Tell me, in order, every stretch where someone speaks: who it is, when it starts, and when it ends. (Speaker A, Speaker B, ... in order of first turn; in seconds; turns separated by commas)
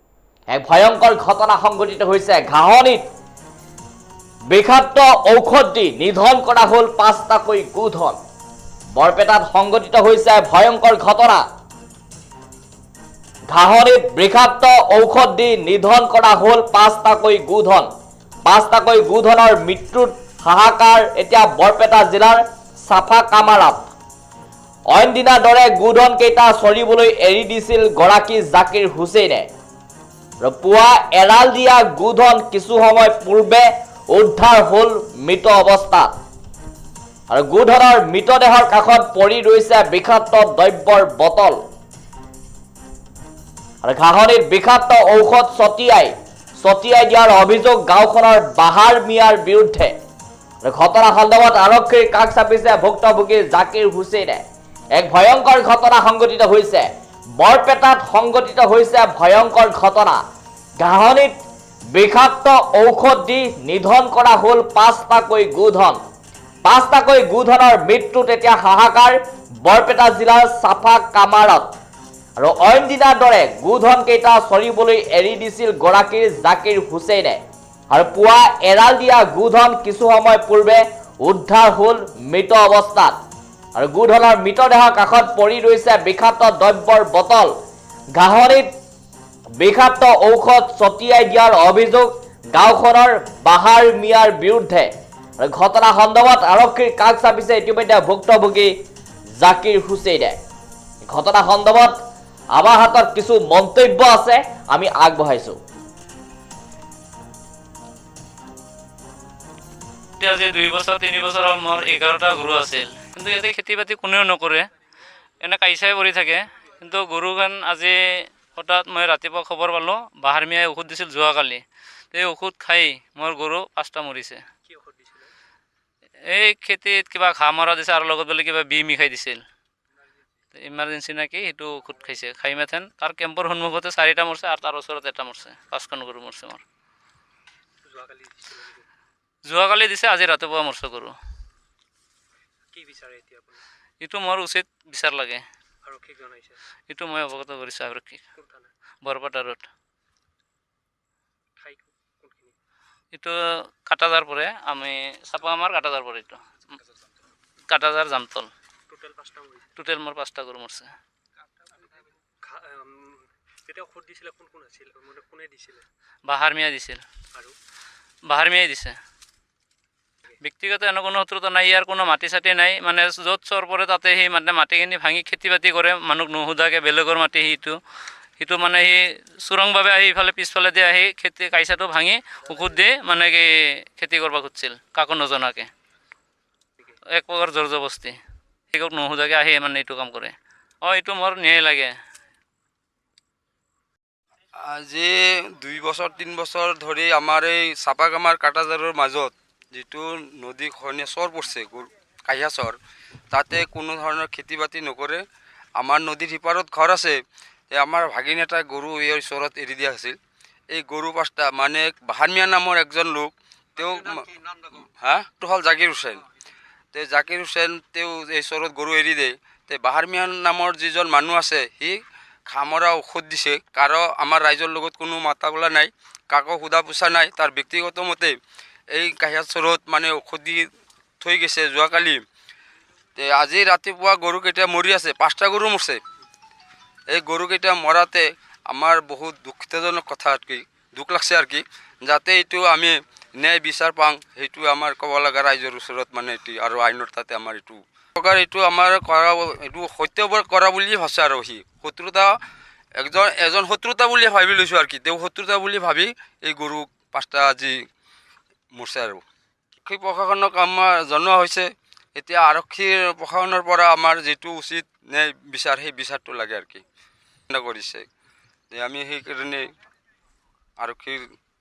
Speaker A: 0.5-3.0, Speaker A: 4.5-8.2, Speaker A: 8.9-11.4, Speaker A: 13.5-17.9, Speaker A: 18.4-23.9, Speaker A: 24.9-29.5, Speaker A: 30.4-36.1, Speaker A: 37.3-41.6, Speaker A: 43.8-49.9, Speaker A: 50.6-54.4, Speaker A: 54.9-56.9, Speaker A: 57.4-60.2, Speaker A: 60.8-61.4, Speaker A: 61.9-66.0, Speaker A: 66.6-71.7, Speaker A: 72.4-77.4, Speaker A: 77.9-83.2, Speaker A: 83.8-87.5, Speaker A: 88.1-88.7, Speaker A: 89.6-98.7, Speaker A: 99.4-100.4, Speaker A: 101.1-102.0, Speaker A: 102.5-105.6, Speaker B: 110.2-114.6, Speaker B: 115.4-124.4, Speaker C: 124.7-125.3, Speaker B: 126.3-129.4, Speaker B: 130.5-136.6, Speaker C: 137.8-138.8, Speaker B: 139.4-141.2, Speaker C: 142.7-143.6, Speaker B: 144.0-145.4, Speaker C: 145.8-146.6, Speaker B: 146.9-148.2, Speaker C: 148.3-148.7, Speaker B: 149.0-149.7, Speaker C: 151.6-152.5, Speaker B: 153.1-156.4, Speaker B: 157.7-158.5, Speaker C: 158.9-159.7, Speaker B: 159.8-160.9, Speaker C: 162.4-165.8, Speaker B: 166.3-167.0, Speaker B: 168.3-169.0, Speaker B: 170.4-177.8, Speaker B: 178.4-185.7, Speaker B: 187.1-188.2, Speaker B: 188.7-191.9, Speaker D: 194.6-202.8, Speaker D: 203.3-205.2, Speaker D: 205.8-207.2, Speaker D: 207.7-210.2, Speaker D: 210.7-214.3, Speaker D: 215.0-216.2, Speaker D: 216.9-228.3, Speaker D: 228.9-230.7, Speaker D: 231.2-232.2, Speaker D: 233.2-236.0, Speaker D: 237.1-252.4, Speaker D: 253.0-257.8, Speaker D: 258.7-259.2, Speaker D: 259.8-266.8, Speaker D: 267.5-268.1, Speaker D: 268.7-269.7, Speaker D: 270.8-271.2